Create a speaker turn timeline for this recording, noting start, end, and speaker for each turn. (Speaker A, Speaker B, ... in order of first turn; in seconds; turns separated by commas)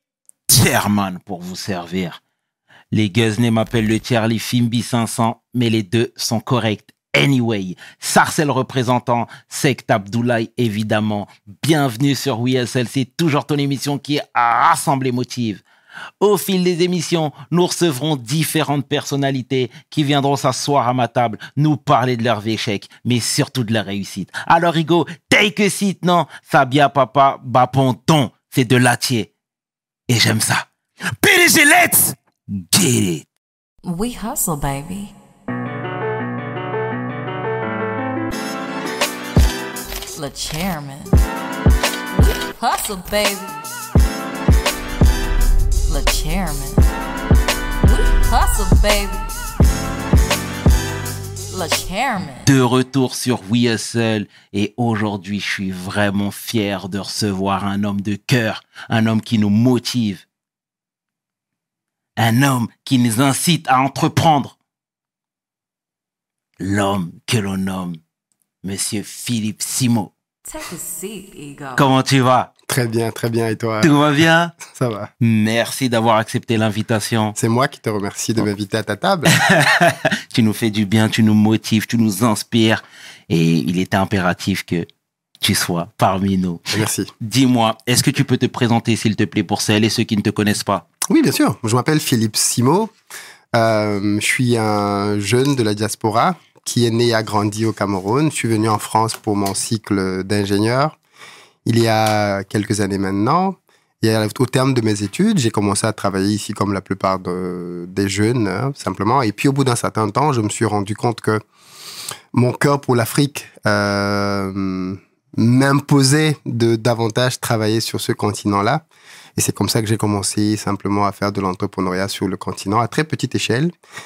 Speaker A: 0.5-2.2, Speaker A: 2.9-15.6, Speaker A: 16.2-29.3, Speaker A: 30.1-30.7, Speaker A: 31.2-33.3, Speaker B: 33.9-35.1, Speaker B: 40.1-41.2, Speaker B: 42.1-43.6, Speaker B: 45.9-46.9, Speaker B: 47.8-49.3, Speaker B: 51.5-52.5, Speaker A: 52.4-60.2, Speaker A: 62.2-64.5, Speaker A: 66.6-68.0, Speaker A: 68.6-70.1, Speaker B: 70.5-71.9, Speaker A: 71.8-72.5, Speaker C: 72.7-73.9, Speaker A: 73.8-74.5, Speaker C: 74.6-75.1, Speaker A: 75.2-77.4, Speaker C: 77.4-79.3, Speaker A: 79.3-84.9, Speaker A: 85.4-90.9, Speaker C: 86.7-87.1, Speaker C: 91.1-92.9, Speaker C: 93.5-101.0, Speaker C: 101.7-111.4, Speaker C: 112.3-118.8, Speaker C: 119.4-123.7